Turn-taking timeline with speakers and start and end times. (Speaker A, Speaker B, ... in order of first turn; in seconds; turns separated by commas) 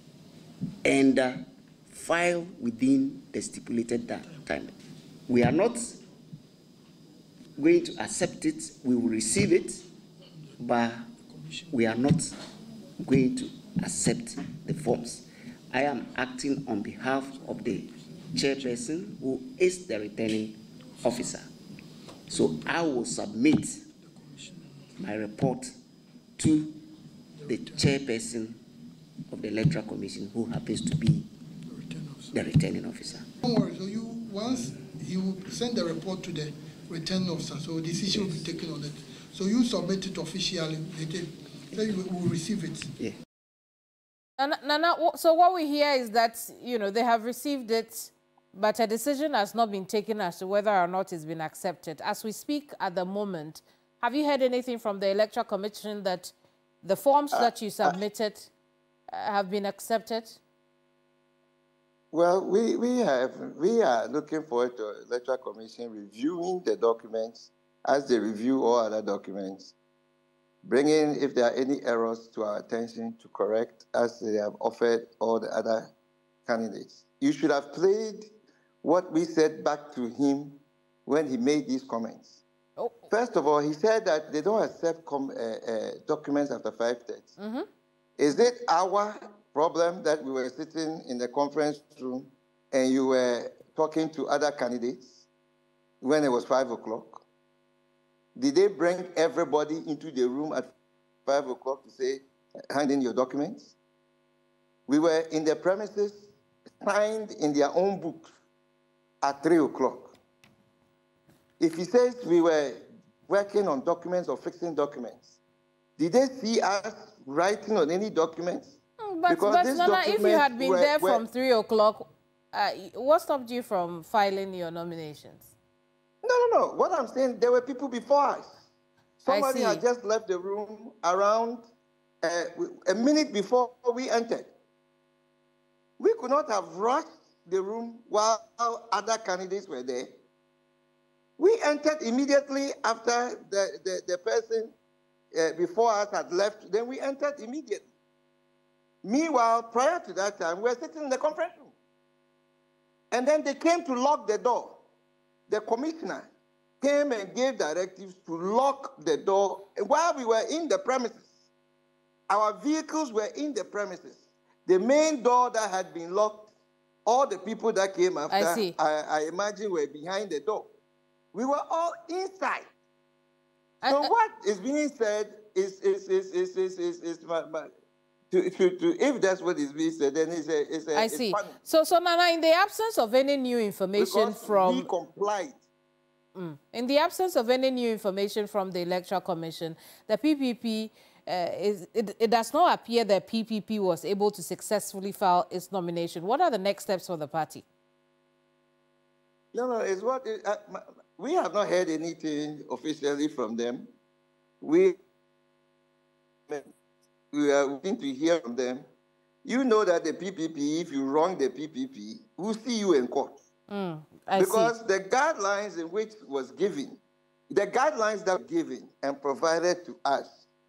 Speaker A: 0.8-4.7, Speaker A: 5.3-6.0, Speaker A: 7.5-9.9, Speaker A: 10.6-11.1, Speaker B: 11.3-11.6, Speaker A: 11.7-12.4, Speaker A: 13.0-21.5, Speaker A: 22.3-23.9, Speaker B: 24.0-24.9, Speaker A: 25.0-25.8, Speaker A: 26.4-26.8, Speaker B: 27.5-27.8, Speaker A: 27.5-28.6, Speaker A: 29.3-31.3, Speaker B: 31.6-32.4, Speaker A: 32.3-33.3, Speaker B: 33.4-42.9, Speaker C: 44.4-58.5, Speaker D: 57.3-58.0, Speaker C: 59.1-60.4, Speaker D: 62.1-69.7, Speaker D: 70.6-75.9, Speaker D: 76.5-78.3, Speaker D: 78.8-82.4, Speaker D: 83.1-87.3, Speaker C: 87.4-87.7, Speaker D: 88.2-95.2, Speaker D: 96.0-97.2, Speaker D: 98.3-100.7, Speaker D: 101.2-103.7, Speaker D: 104.9-108.3, Speaker D: 109.2-110.1, Speaker D: 111.6-115.3, Speaker D: 116.0-121.2, Speaker C: 119.0-125.5, Speaker D: 126.2-128.6, Speaker D: 129.2-131.7, Speaker C: 129.3-129.8, Speaker D: 132.2-134.5, Speaker D: 136.0-140.2, Speaker D: 141.4-144.7, Speaker D: 145.3-147.8, Speaker D: 149.0-151.7, Speaker D: 153.1-154.8, Speaker D: 155.5-156.3, Speaker D: 156.8-161.3, Speaker D: 162.3-166.5, Speaker D: 167.0-170.7, Speaker C: 168.3-168.7, Speaker D: 171.3-172.7, Speaker C: 173.8-174.1, Speaker D: 173.8-177.7, Speaker D: 178.3-181.6, Speaker C: 180.9-184.9, Speaker D: 184.0-185.6, Speaker C: 186.3-197.6, Speaker D: 199.5-203.9, Speaker D: 204.6-205.0, Speaker D: 207.3-208.9, Speaker D: 209.4-213.4, Speaker C: 213.7-214.7, Speaker D: 214.3-220.4